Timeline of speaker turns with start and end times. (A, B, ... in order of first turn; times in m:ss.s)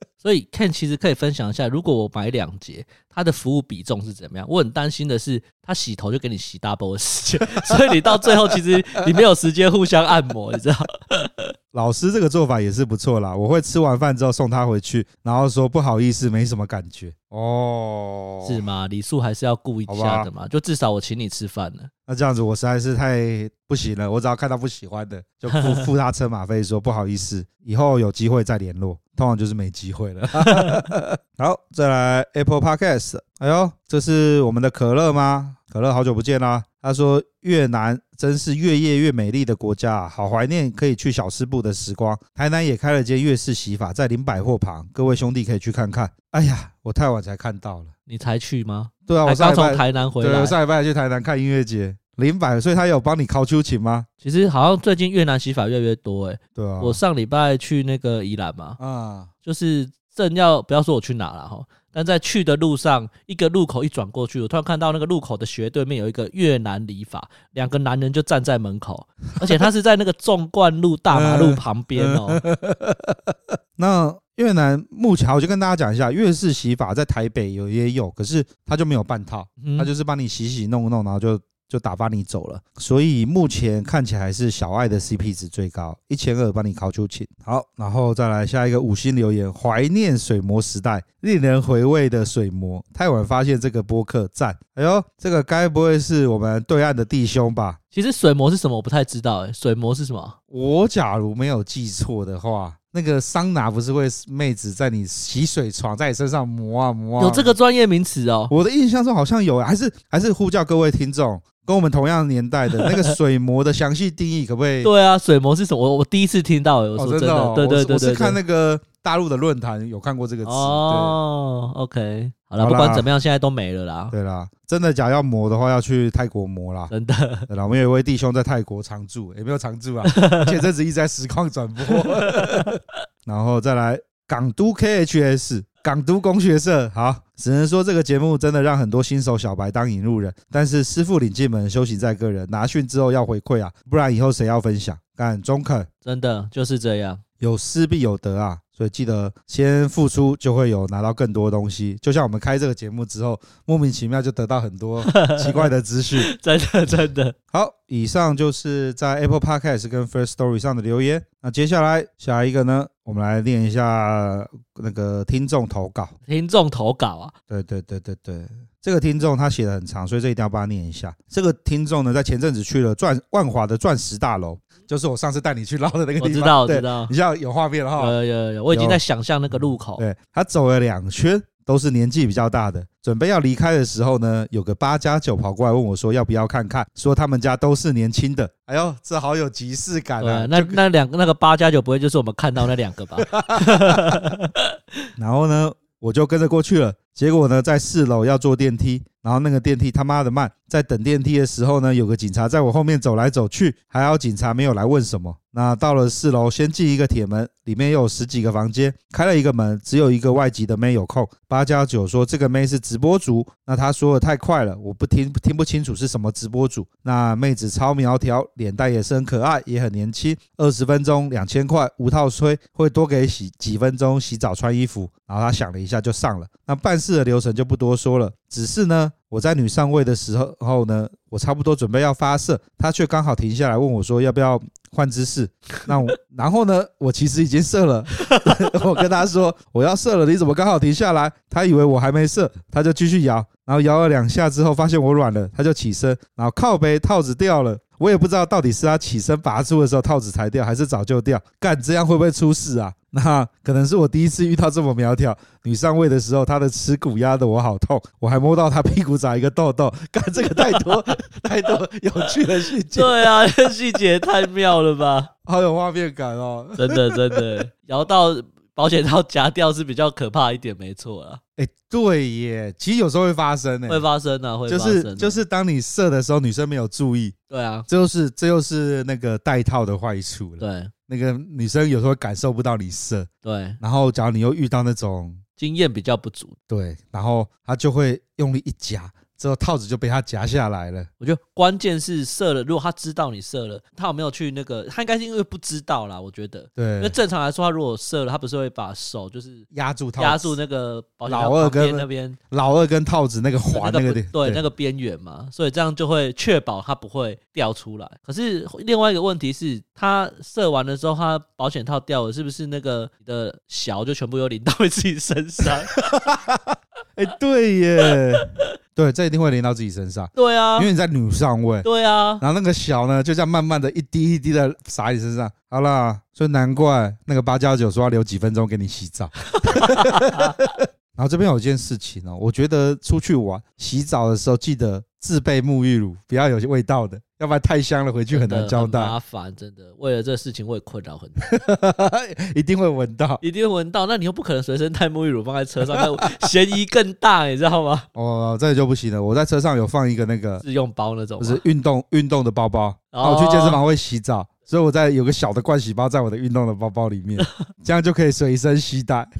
0:00.2-0:11.3 A
0:07.6-0:08.7 B
0:11.7-0:18.6 B
0:18.4-0:21.9 A
0:19.9-0:20.3 B
0:22.1-0:47.9 B
0:30.4-0:30.7 A
0:48.1-0:50.6 A
0:49.1-0:54.1 B
0:54.2-0:58.8 A
0:56.5-0:57.0 B
0:58.8-0:59.3 B
0:59.4-1:12.4 A
1:11.1-1:37.8 B
1:19.6-1:19.9 A
1:37.9-1:40.4 A
1:40.5-1:47.6 B
1:47.2-1:48.5 A
1:48.5-1:54.9 B
1:52.7-1:53.1 A
1:54.8-1:58.4 A
1:57.0-2:01.2 B
2:00.4-2:04.1 A
2:02.6-2:03.1 B
2:04.1-2:06.9 B
2:06.9-2:07.5 A
2:07.5-2:25.9 B
2:10.0-2:10.6 A
2:11.9-2:12.7 A
2:26.0-2:27.2 A
2:27.4-2:36.3 B
2:35.0-2:35.6 A
2:36.2-2:37.3 A
2:37.5-2:46.1 B
2:46.3-2:47.3 A
2:47.5-2:58.2 B
2:56.2-2:57.1 A
2:58.0-3:00.0 A
2:58.7-2:59.0 B
3:00.0-3:10.8 B
3:10.2-3:14.6 A
3:13.3-3:14.1 B
3:15.2-4:23.3 B
4:20.5-4:20.8 A
4:22.9-4:25.3 A
4:25.4-4:27.4 B
4:26.8-4:31.4 A
4:31.6-4:34.0 B
4:33.9-4:35.4 A
4:34.7-4:37.3 B
4:37.5-4:37.9 A
4:37.9-4:43.3 B
4:40.6-4:40.9 A
4:43.4-4:43.8 A
4:43.8-4:45.4 B
4:45.6-4:46.5 A
4:46.7-4:51.1 B
4:51.2-5:02.4 A
4:56.8-4:57.2 B
4:59.7-5:00.6 B
5:01.3-5:04.6 B
5:03.7-5:15.9 A
5:15.9-5:21.8 B
5:20.3-5:20.9 A
5:21.8-5:22.4 A
5:22.4-5:39.2 B
5:29.6-5:30.6 A
5:38.3-5:41.5 A
5:41.4-5:43.4 B
5:43.4-5:48.1 A
5:48.1-5:50.6 B
5:50.6-5:51.6 A
5:51.4-5:59.3 B
5:53.1-5:53.8 A